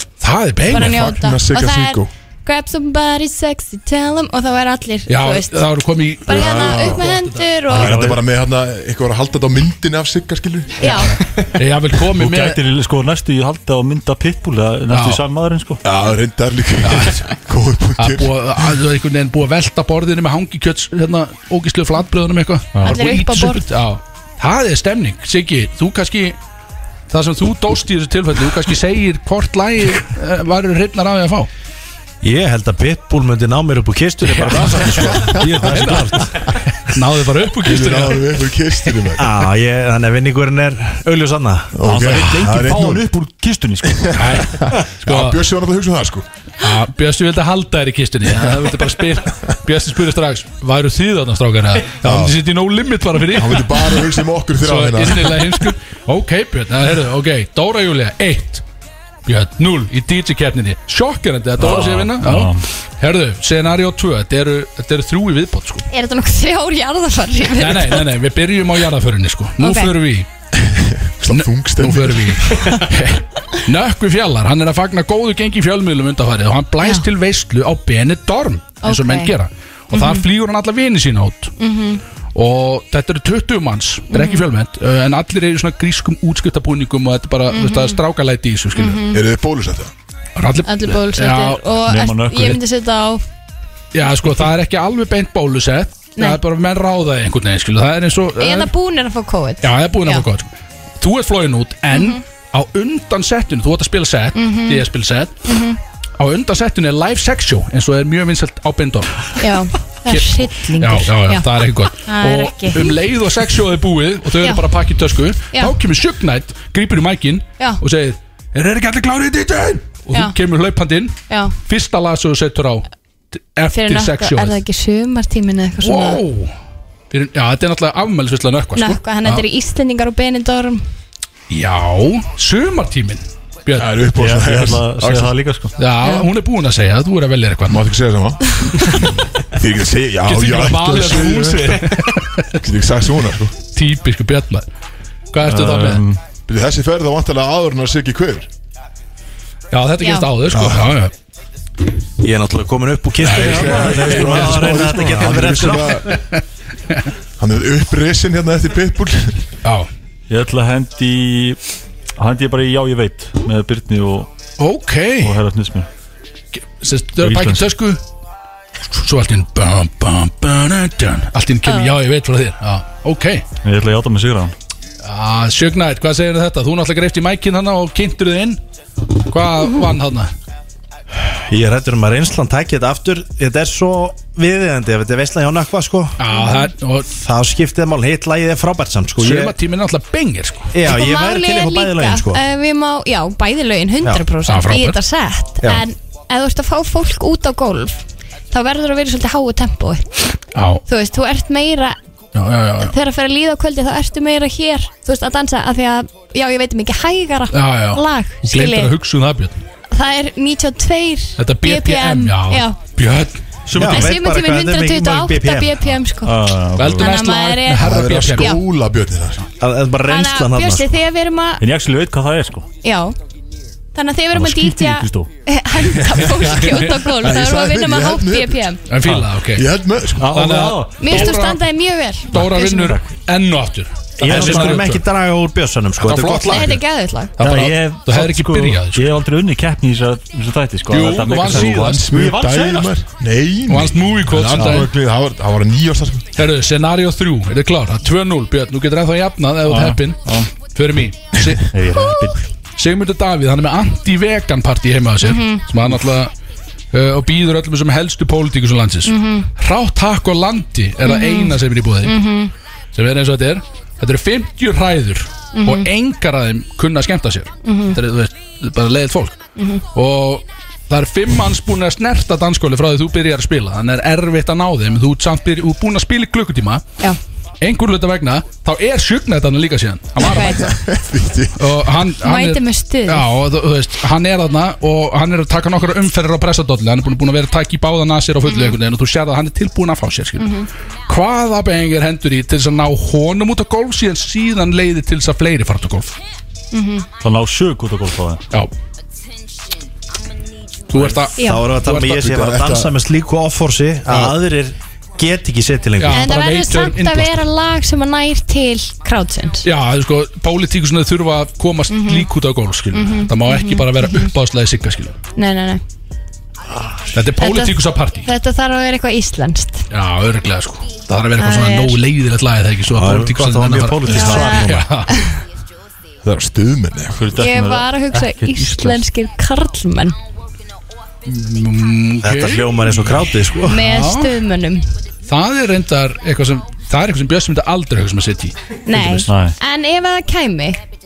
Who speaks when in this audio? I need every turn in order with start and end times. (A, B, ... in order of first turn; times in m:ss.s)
0:00.2-0:01.1 A
0:00.7-0:05.7 B
0:00.7-0:02.1 C
0:05.1-0:07.5 A
0:06.3-0:08.0 B
0:06.3-0:07.0 C
0:07.7-0:11.0 C
0:07.7-0:08.2 D
0:10.8-0:11.2 B
0:10.9-0:12.6 A
0:12.1-0:15.8 D
0:14.9-0:15.2 A
0:15.8-0:18.4 C
0:16.8-0:17.2 A
0:18.0-0:26.4 A
0:22.8-0:23.0 D
0:22.8-0:23.7 B
0:27.1-0:31.5 A
0:32.2-0:36.5 E
0:34.2-0:39.1 A
0:35.4-0:36.0 D
0:37.6-0:39.3 C
0:39.2-0:41.8 E
0:41.8-0:43.1 C
0:41.8-0:44.4 D
0:44.0-0:46.2 C
0:44.2-0:45.4 A
0:46.6-0:58.6 A
0:52.0-0:52.4 C
0:53.3-0:55.6 C
0:59.3-1:05.9 A
1:01.6-1:02.7 D
1:05.9-1:08.1 B
1:07.6-1:10.3 A
1:09.6-1:10.0 B
1:10.6-1:12.7 C
1:11.3-1:21.6 A
1:16.8-1:17.1 B
1:18.8-1:19.4 B
1:19.9-1:20.3 B
1:21.6-1:22.0 B
1:22.3-1:29.0 A
1:24.1-1:24.5 B
1:27.5-1:28.0 B
1:28.7-1:29.2 B
1:29.1-1:29.9 C
1:30.4-1:31.6 A
1:30.6-1:33.2 B
1:31.8-1:32.6 D
1:33.9-1:38.7 A
1:38.4-1:40.2 B
1:39.6-1:45.5 A
1:41.9-1:42.2 B
1:44.4-1:44.9 B
1:45.4-1:45.8 B
1:46.2-1:49.5 A
1:49.4-1:53.0 B
1:50.1-2:04.6 A
1:54.4-1:54.7 B
2:00.1-2:00.4 B
2:01.3-2:01.6 B
2:03.7-2:06.2 B
2:05.8-2:06.5 A
2:07.1-2:09.4 A
2:08.8-2:10.8 B
2:11.5-2:13.9 A
2:13.8-2:15.4 C
2:14.2-2:15.8 D
2:15.8-2:17.8 A
2:16.0-2:16.3 B
2:17.7-2:22.0 C
2:20.3-2:22.6 A
2:22.6-2:23.6 C
2:23.7-2:24.7 A
2:25.3-2:26.0 A
2:25.4-2:26.2 D
2:26.5-2:28.5 C
2:29.7-2:31.1 A
2:30.0-2:30.3 B
2:30.5-2:30.9 C
2:32.2-2:36.1 E
2:33.2-2:34.8 A
2:33.3-2:36.2 C
2:33.8-2:34.8 D
2:36.1-2:37.1 A
2:37.4-2:39.4 C
2:39.6-2:39.9 A
2:40.3-2:41.6 D
2:42.2-2:44.3 D
2:44.6-2:45.4 A
2:45.2-2:45.9 D
2:46.5-2:48.0 A
2:47.2-2:47.7 D
2:48.9-2:53.5 A
2:51.6-2:52.0 B
2:53.6-2:54.5 D
2:55.0-2:58.6 A
2:59.2-3:00.3 A
3:01.1-3:06.2 E
3:06.2-3:07.1 A
3:06.3-3:06.7 B
3:07.1-3:09.6 E
3:09.2-3:10.8 A
3:10.7-3:12.4 E
3:10.8-3:20.3 B
3:14.5-3:15.0 A
3:20.5-3:20.8 A
3:20.9-3:22.0 B
3:22.3-3:23.0 A
3:22.8-3:29.0 B
3:27.5-3:29.6 A
3:29.9-3:32.8 B
3:31.4-3:34.0 A
3:33.7-3:34.2 D
3:33.7-3:35.8 E
3:33.8-3:38.6 B
3:36.2-3:37.2 D
3:36.8-3:38.6 A
3:37.8-3:39.5 C
3:39.6-3:41.0 E
3:40.1-3:41.6 B
3:41.6-3:42.7 D
3:42.8-3:43.2 B
3:43.9-3:48.8 B
3:44.3-3:45.3 D
3:46.4-3:47.0 A
3:47.1-3:48.7 C
3:48.9-3:49.7 A
3:49.0-3:49.3 D
3:49.5-3:50.4 C
3:50.2-3:51.4 D
3:50.3-3:51.6 A
3:51.0-3:53.0 B
3:52.2-3:55.0 A
3:52.4-3:53.1 D
3:54.2-3:56.8 E
3:54.3-3:54.8 D
3:56.0-3:56.8 A
3:56.5-3:57.4 B
3:57.4-3:59.1 A
3:57.4-4:03.0 D
4:00.9-4:02.1 A
4:01.5-4:06.3 C
4:03.7-4:04.9 A
4:06.4-4:11.7 A
4:09.7-4:10.5 D
4:11.7-4:12.4 D
4:11.9-4:12.4 B
4:12.8-4:16.3 A
4:15.2-4:15.7 B
4:16.9-4:22.2 A
4:19.0-4:19.5 B
4:21.0-4:22.5 B
4:22.9-4:36.9 A
4:25.5-4:25.9 B
4:27.6-4:28.0 B
4:29.6-4:29.8 B
4:37.6-4:40.8 A
4:40.2-4:40.7 B
4:40.5-4:41.8 C
4:41.5-4:56.2 A
4:42.2-4:43.3 B
4:48.5-4:48.8 B
4:50.4-4:50.7 B
4:56.7-4:57.1 B
4:57.2-4:58.4 D
5:00.9-5:02.3 A
5:01.4-5:01.7 B
5:01.4-5:06.3 E
5:02.1-5:03.0 C
5:04.1-5:04.4 A
5:06.0-5:07.4 A
5:06.1-5:09.7 B
5:09.6-5:15.2 A
5:11.9-5:12.3 B
5:12.9-5:14.3 B
5:15.3-5:15.8 B
5:17.1-5:18.3 A
5:17.4-5:19.9 B
5:19.9-5:25.3 A
5:21.4-5:22.0 B
5:22.9-5:24.8 E
5:24.1-5:25.4 B
5:26.2-5:27.3 C
5:27.1-5:29.0 D
5:27.3-5:30.2 B
5:31.3-5:34.4 A
5:32.2-5:33.8 E
5:33.6-5:35.0 B
5:35.3-5:39.2 A
5:38.9-5:40.8 B
5:39.3-5:39.6 D